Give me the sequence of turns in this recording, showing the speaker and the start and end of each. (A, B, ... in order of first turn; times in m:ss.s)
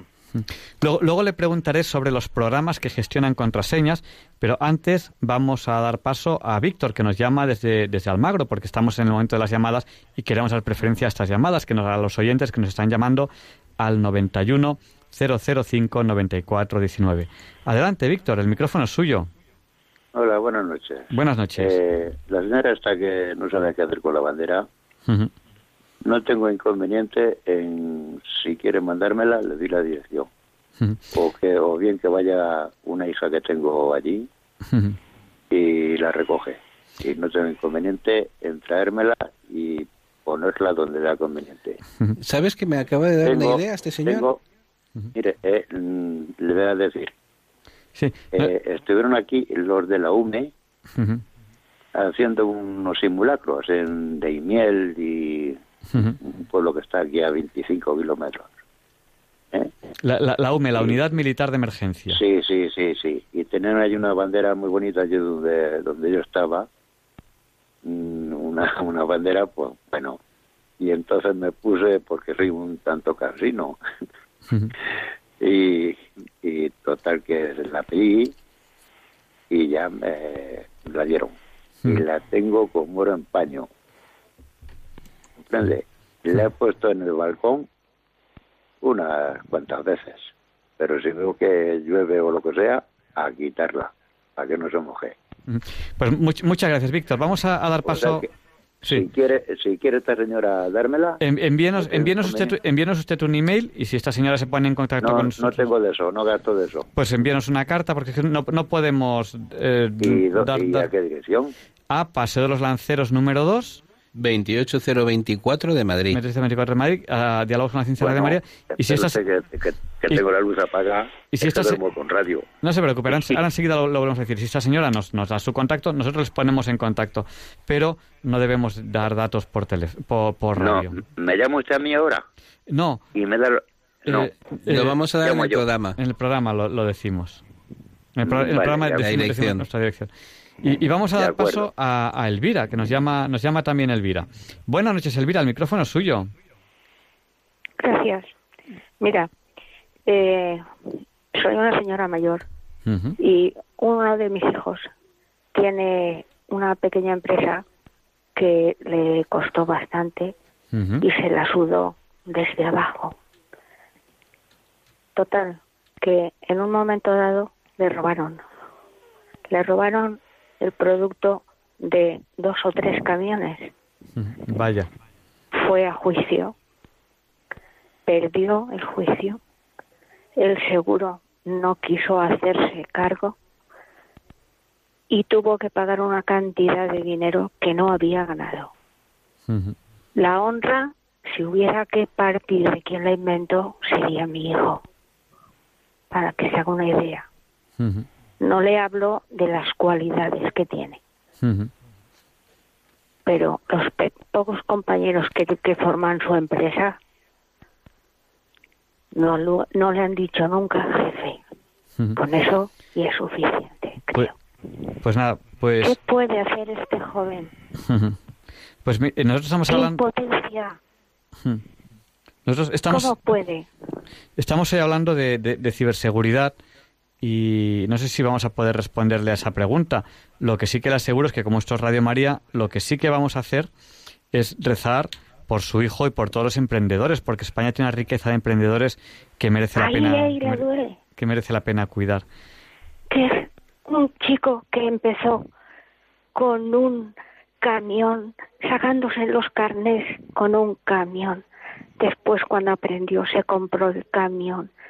0:00.4-0:19.3 A
0:20.1-0:24.7 B
0:21.1-0:21.8 A
0:26.0-0:30.3 B
0:31.1-0:34.3 B
0:34.7-0:35.0 A
0:35.5-0:41.8 B
0:42.2-0:44.3 C
0:43.2-0:44.4 B
0:45.2-0:47.1 B
0:48.0-0:48.5 A
0:48.3-0:50.5 B
0:51.0-0:51.2 A
0:52.0-0:55.6 B
0:55.9-0:56.2 A
0:56.2-0:58.5 B
1:00.0-1:02.2 A
1:02.1-1:06.7 B
1:07.8-1:10.2 B
1:10.8-1:13.8 B
1:14.5-1:14.7 A
1:15.4-1:18.4 B
1:19.5-1:21.4 B
1:21.9-1:23.7 B
1:25.5-1:27.7 B
1:28.8-1:35.2 B
1:35.5-1:38.3 A
1:37.8-1:38.3 B
1:38.8-1:39.1 A
1:38.9-1:41.2 B
1:41.2-1:45.7 A
1:41.8-1:42.6 B
1:45.0-1:46.9 B
1:47.0-1:50.9 A
1:50.0-1:51.5 B
1:51.9-1:53.8 A
1:54.2-1:56.2 C
1:56.1-1:59.2 A
1:58.0-2:02.5 B
2:01.3-2:01.8 A
2:02.6-2:11.0 A
2:10.6-2:12.3 B
2:12.7-2:13.0 A
2:13.2-2:14.3 B
2:14.1-2:15.0 A
2:14.7-2:16.0 C
2:15.2-2:15.7 B
2:16.0-2:17.4 A
2:18.2-2:20.1 A
2:18.2-2:19.2 B
2:19.0-2:19.6 C
2:20.6-2:26.3 A
2:21.2-2:21.7 B
2:27.8-2:28.3 D
2:29.0-2:29.3 D
2:30.1-2:32.4 D
2:32.9-2:33.2 A
2:33.2-2:34.9 D
2:35.5-2:37.6 D
2:38.4-2:40.3 D
2:40.7-2:41.0 A
2:41.0-2:43.2 D
2:45.2-2:48.4 D
2:49.5-2:53.7 D
2:54.2-2:54.9 A
2:55.5-2:56.6 D
2:58.1-2:59.4 D
3:00.4-3:03.4 D
3:05.1-3:08.7 D
3:09.5-3:09.8 A
3:10.2-3:14.8 D
3:16.1-3:17.3 D
3:17.8-3:18.1 A
3:18.4-3:21.0 D
3:21.4-3:21.7 A
3:23.3-3:27.0 D
3:29.1-3:31.4 D
3:32.2-3:34.4 D
3:35.0-3:36.0 A
3:35.8-3:37.5 D
3:37.9-3:38.2 A
3:38.8-3:40.0 A
3:39.7-3:40.8 D
3:42.5-3:43.1 A
3:42.9-3:43.7 D
3:44.4-3:46.6 A
3:47.2-3:53.7 A
3:54.3-4:00.6 A
3:59.8-4:01.0 D
4:01.2-4:02.2 A
4:03.1-4:05.5 D
4:06.4-4:11.4 D
4:12.0-4:14.7 D